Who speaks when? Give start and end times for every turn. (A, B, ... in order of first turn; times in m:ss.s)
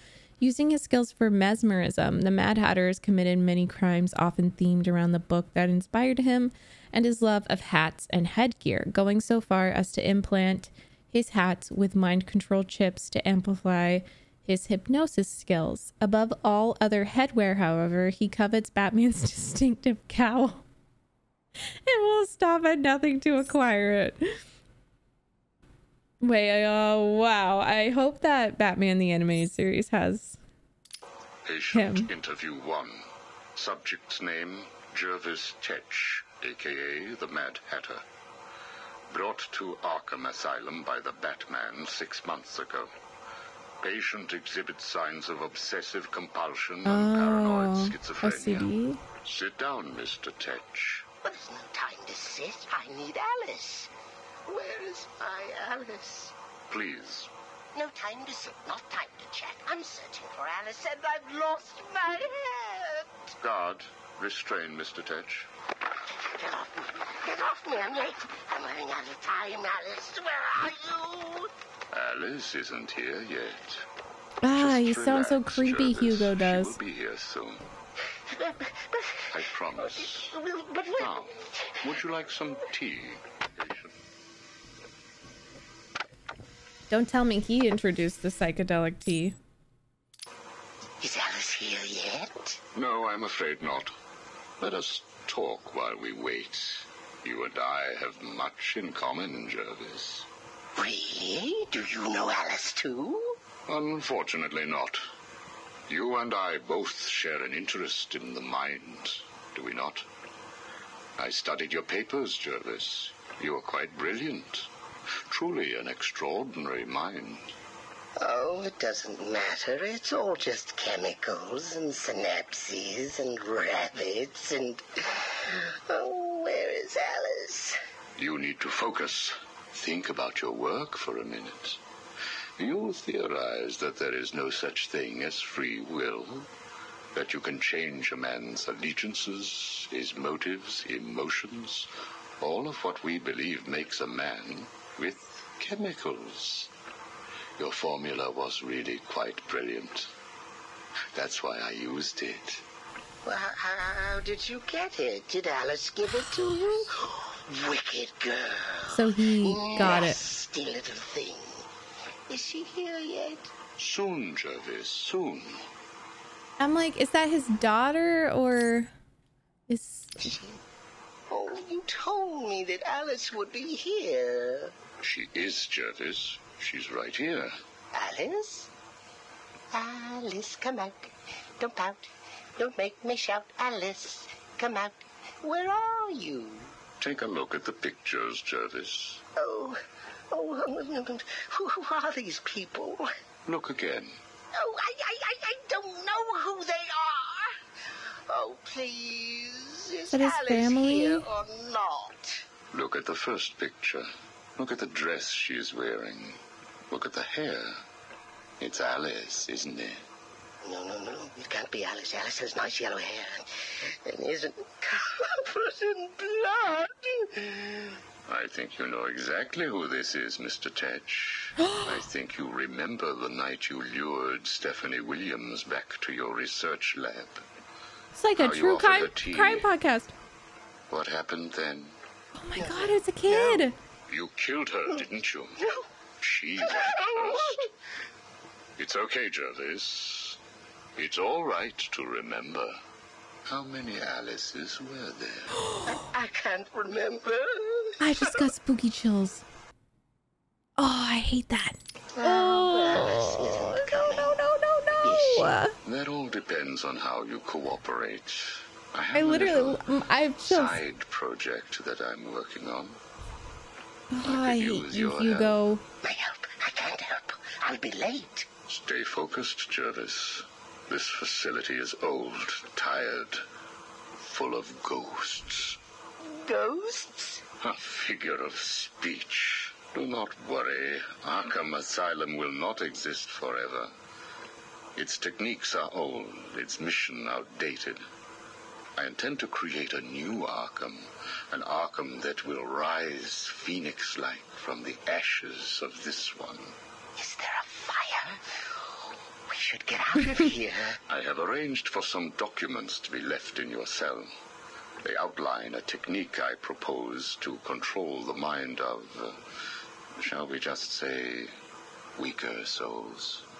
0:00.4-0:20.6 A
0:21.8-0:24.2 A
0:26.2-0:30.4 A
0:31.4-0:38.0 B
0:31.7-0:32.1 A
0:39.1-0:42.9 B
0:43.8-0:51.1 B
0:46.8-0:49.0 A
0:51.2-0:53.9 C
0:54.4-0:56.3 C
0:56.7-0:57.3 B
0:57.7-1:03.3 C
1:03.4-1:05.5 B
1:06.1-1:11.5 C
1:11.9-1:13.8 B
1:14.4-1:16.7 A
1:14.5-1:17.6 B
1:18.2-1:22.0 C
1:19.3-1:20.4 B
1:21.0-1:23.9 B
1:26.9-1:29.4 A
1:31.0-1:32.6 C
1:32.7-1:33.9 B
1:34.6-1:40.3 B
1:40.8-1:43.4 C
1:43.7-1:45.0 B
1:45.9-1:50.0 B
1:51.2-1:54.7 B
1:55.3-1:57.5 B
1:58.2-2:07.8 C
2:08.2-2:11.8 B
2:12.6-2:16.5 B
2:17.1-2:21.9 B
2:22.4-2:26.7 B
2:27.6-2:30.1 B
2:31.1-2:32.6 B
2:33.2-2:41.7 C
2:38.9-2:40.2 A
2:42.3-2:43.5 C
2:43.8-2:45.6 B
2:46.6-2:48.9 A
2:49.7-2:50.4 A
2:50.2-2:50.6 C
2:51.3-2:54.7 C
2:55.0-2:57.5 B
2:57.9-2:58.7 C
2:59.7-3:06.8 C
3:07.0-3:09.2 B
3:09.4-3:13.1 C
3:13.4-3:14.2 B
3:14.5-3:22.4 C
3:20.1-3:21.2 A
3:22.7-3:26.4 B
3:26.9-3:27.8 B
3:28.6-3:30.0 B
3:30.6-3:38.0 C
3:38.3-3:47.4 B
3:41.6-3:42.0 A
3:48.1-3:50.1 A
3:48.4-3:49.7 B
3:50.9-3:51.9 B
3:52.4-3:53.8 A
3:52.6-3:53.6 C
3:54.1-3:55.6 B
3:55.6-3:55.9 C
3:56.2-3:57.6 B
3:56.6-3:57.7 C
3:58.8-4:00.4 B
4:01.0-4:02.8 B
4:03.5-4:05.6 B
4:05.8-4:08.4 C
4:08.0-4:09.4 A
4:10.8-4:15.7 A
4:12.1-4:14.4 C
4:15.0-4:15.6 C
4:15.8-4:19.9 B
4:19.1-4:20.8 A
4:20.4-4:23.0 B
4:24.1-4:25.8 A
4:24.2-4:25.6 B
4:26.0-4:28.5 C
4:28.7-4:33.4 B
4:34.2-4:35.8 B
4:36.2-4:37.4 C
4:37.6-4:43.9 B
4:45.0-4:48.0 B
4:49.0-4:56.7 B
4:57.2-5:01.0 C
5:01.1-5:04.3 B
5:05.0-5:09.4 B
5:10.2-5:11.5 B
5:12.2-5:13.4 B